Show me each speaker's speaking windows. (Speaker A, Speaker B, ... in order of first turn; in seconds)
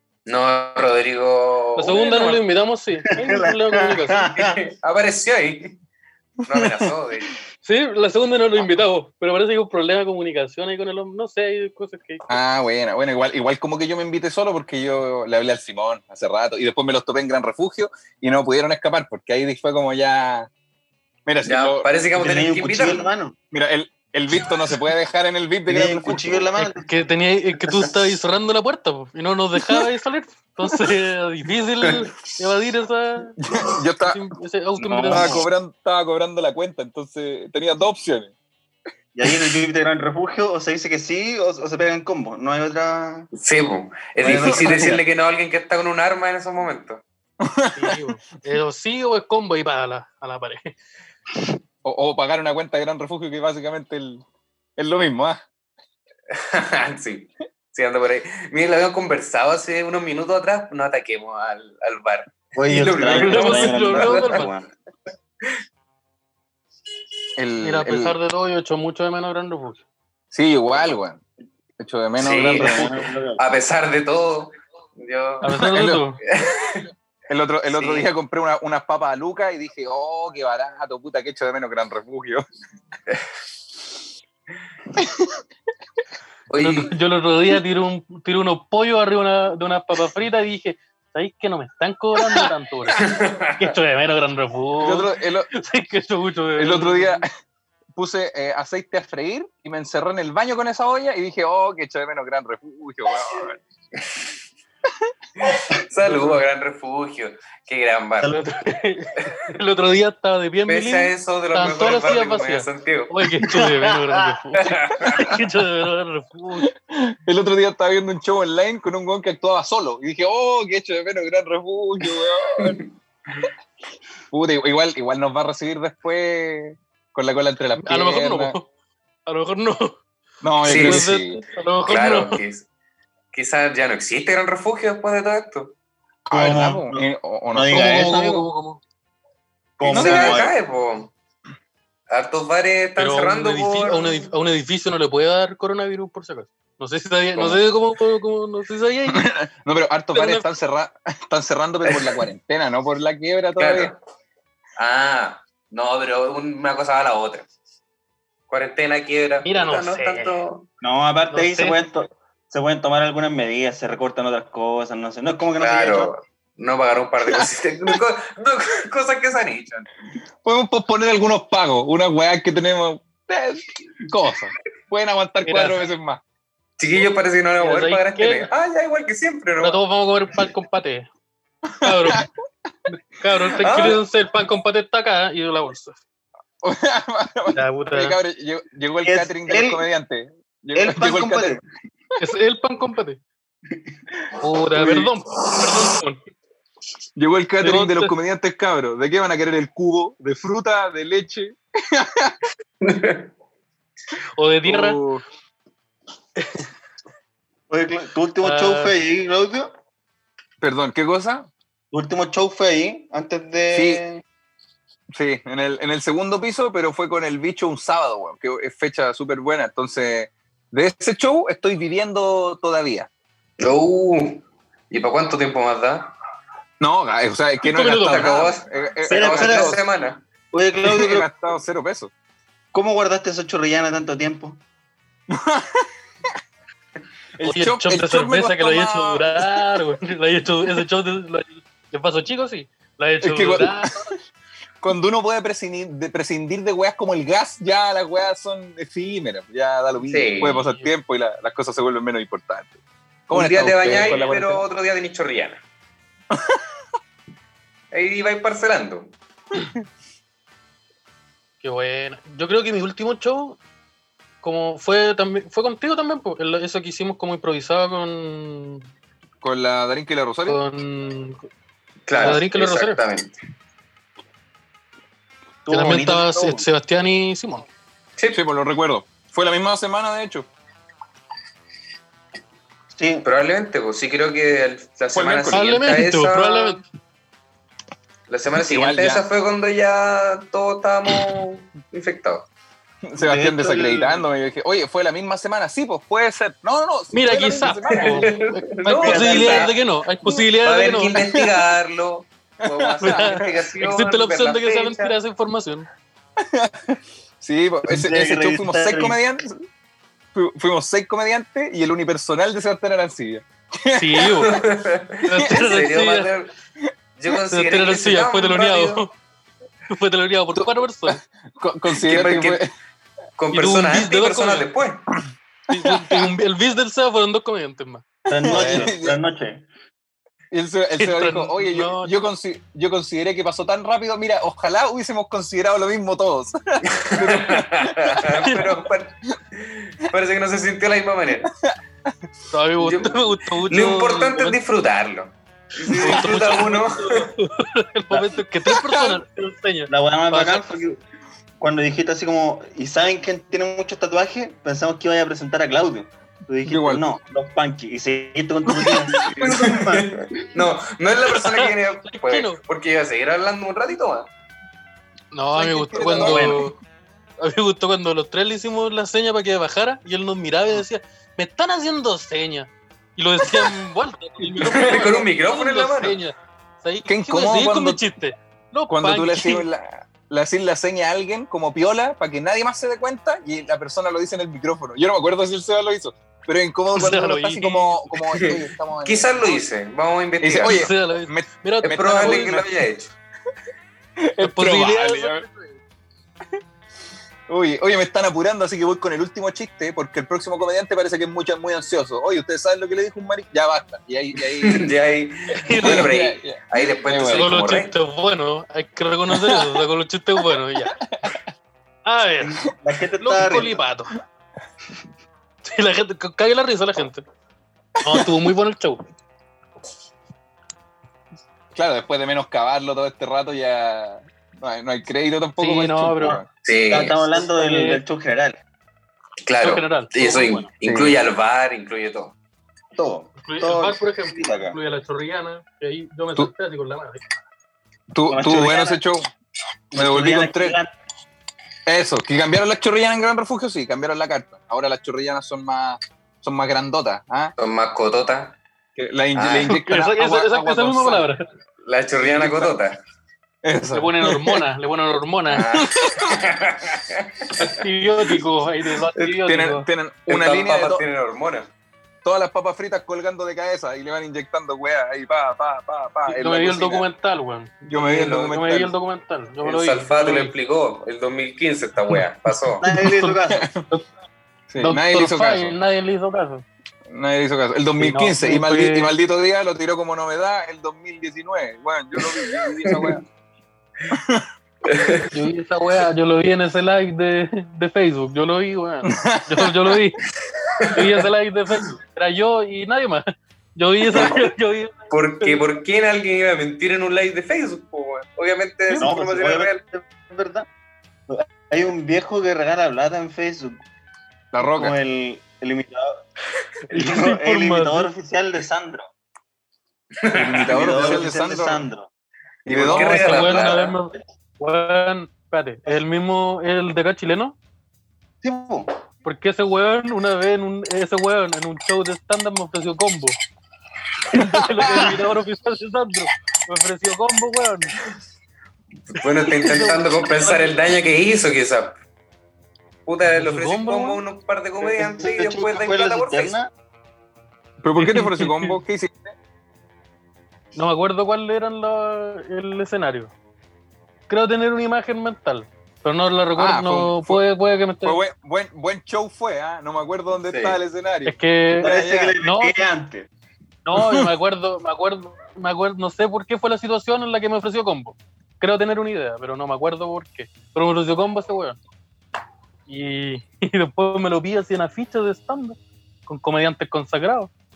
Speaker A: 0.3-2.4, 4.3-5.8, 6.5-7.4, 21.4-23.1, 43.3-47.0, 56.3-64.4, 72.2-75.5, 76.2-76.9, 77.7-78.1, 86.5-86.9, 93.0-93.7, 105.4-108.4, 110.7-113.1, 114.6-115.3, 130.7-131.0, 131.9-132.7, 133.3-135.7, 139.8-141.1, 142.1-144.3, 151.9-152.2, 153.6-154.0, 154.8-157.5, 158.5-160.7, 165.6-169.9, 176.8-179.8, 183.6-184.0, 202.8-203.3, 223.6-226.1, 228.0-230.2, 250.0-250.6, 253.3-255.6, 257.9-259.1, 272.1-273.4, 283.2-286.8, 288.3-292.5, 297.9-299.7, 300.6-305.2, 314.5-316.5, 317.2-319.1, 321.9-322.6, 323.4-325.1, 336.9-341.5, 342.8-347.3, 359.2-364.3, 374.6-376.2, 388.3-390.9, 391.8-393.1, 404.6-407.9, 426.6-427.2, 429.5-432.4, 447.6-448.6, 449.4-449.8, 451.9-453.0, 455.5-457.7, 460.3-461.7, 469.6-472.8, 482.9-483.2, 484.9-485.3, 490.7-491.1, 494.1-494.4, 495.1-499.8, 510.2-511.1, 512.7-513.9, 529.1-532.0, 533.1-536.6, 550.4-550.8
Speaker B: 1.8-4.3, 7.6-12.3, 26.6-33.4, 34.0-35.4, 47.7-50.8, 63.1-64.5, 67.6-69.8, 75.4-76.2, 86.6-93.0, 93.6-97.2, 106.0-106.4, 108.2-116.7, 127.8-128.7, 129.3-130.0, 130.7-132.4, 137.7-138.8, 143.0-149.3, 150.1-150.5, 159.4-160.4, 161.3-161.8, 175.4-175.8, 177.6-178.5, 179.6-181.1, 181.8-182.3, 182.9-186.0, 187.5-188.2, 192.2-193.2, 194.4-196.2, 197.6-198.1, 204.4-205.0, 206.4-206.7, 208.4-208.9, 227.7-228.2, 237.4-244.1, 250.5-250.9, 261.6-263.6, 264.4-268.9, 270.5-271.5, 272.2-273.0, 275.7-277.7, 285.5-286.8, 297.1-301.2, 303.0-305.9, 313.9-314.6, 315.2-316.3, 317.5-319.1, 319.9-321.2, 323.5-324.7, 325.7-328.9, 331.0-332.1, 338.4-338.7, 342.5-344.6, 345.9-350.7, 361.4-362.6, 365.3-366.8, 367.4-379.7, 386.9-388.0, 390.6-392.6, 394.4-395.4, 405.6-406.1, 407.3-411.0, 412.1-412.6, 413.2-414.1, 415.6-417.2, 418.0-419.0, 425.6-426.4, 427.4-428.0, 429.6-430.7, 433.4-437.2, 449.7-451.5, 453.9-455.7, 457.6-459.9, 466.3-470.5, 473.1-473.4, 474.8-476.6, 478.0-479.1, 485.3-490.2, 490.9-495.6, 506.9-508.1, 512.9-517.6, 519.2-523.4, 524.3-528.0, 529.5-530.8, 533.3-534.2, 538.0-538.8, 540.8-543.3, 544.3-548.2, 551.2-552.8, 553.9-561.8, 562.9-567.5
Speaker C: 3.1-4.6, 22.2-23.4, 25.7-26.9, 34.8-35.5, 39.1-43.3, 44.2-44.9, 62.6-64.7, 72.5-73.4, 113.5-114.3, 136.3-138.5, 139.8-140.5, 160.8-166.1, 189.0-189.8, 190.8-191.6, 207.7-209.7, 211.9-214.2, 229.1-229.8, 230.5-231.3, 232.7-234.6, 275.7-276.6, 282.9-283.3, 293.2-294.2, 299.0-299.6, 307.9-309.2, 328.3-329.6, 348.1-348.4, 349.9-351.0, 351.6-360.1, 366.2-366.7, 412.4-413.8, 426.2-428.6, 432.9-434.8, 438.3-439.0, 439.9-440.9, 472.8-473.7, 499.0-500.7, 501.3-503.8, 504.7-506.1, 506.9-509.1, 510.3-512.1, 518.4-518.9, 534.8-536.7, 551.8-553.3
Speaker D: 6.5-6.9, 12.3-20.5, 21.3-21.9, 23.5-26.5, 29.6-29.9, 33.4-34.2, 35.1-38.3, 44.2-45.0, 47.4-48.0, 51.8-54.2, 54.8-55.4, 67.4-68.2, 70.3-71.2, 71.8-72.9, 75.5-76.0, 77.3-82.5, 85.0-85.4, 94.8-95.5, 96.6-97.3, 98.0-103.6, 116.6-122.8, 124.3-128.6, 130.4-131.4, 136.3-138.2, 139.9-140.5, 149.1-153.9, 167.3-168.0, 170.4-176.2, 181.8-182.3, 183.6-184.0, 186.6-191.6, 194.7-195.1, 197.2-202.4, 204.7-205.2, 210.6-211.5, 213.7-214.0, 215.1-223.1, 226.8-229.8, 230.8-232.1, 235.3-235.9, 237.4-239.8, 243.2-244.1, 244.8-252.7, 253.3-254.7, 256.3-256.6, 269.4-270.6, 278.3-280.5, 285.1-285.6, 288.6-289.3, 293.1-298.4, 299.1-299.7, 301.2-301.5, 302.6-303.5, 306.4-309.7, 310.3-314.6, 315.2-315.7, 320.6-322.7, 325.7-326.3, 328.3-329.2, 330.5-338.4, 356.6-357.1, 358.7-359.2, 365.5-366.7, 373.4-373.7, 374.4-375.0, 377.1-378.1, 378.9-389.6, 390.4-392.7, 394.2-395.6, 397.5-404.9, 405.8-407.5, 409.3-409.7, 411.0-411.4, 421.8-426.5, 430.8-431.2, 438.1-439.3, 439.9-440.8, 441.9-447.5, 449.0-451.3, 452.2-452.8, 453.6-454.6, 455.7-456.4, 459.5-461.1, 462.2-467.1, 467.8-468.9, 473.5-473.8, 474.7-475.8, 477.1-483.2, 484.1-484.5, 489.1-490.0, 504.5-504.9, 510.4-511.8, 512.7-513.6, 524.4-525.1, 537.8-539.3, 546.6-547.4, 548.0-551.4, 554.0-554.3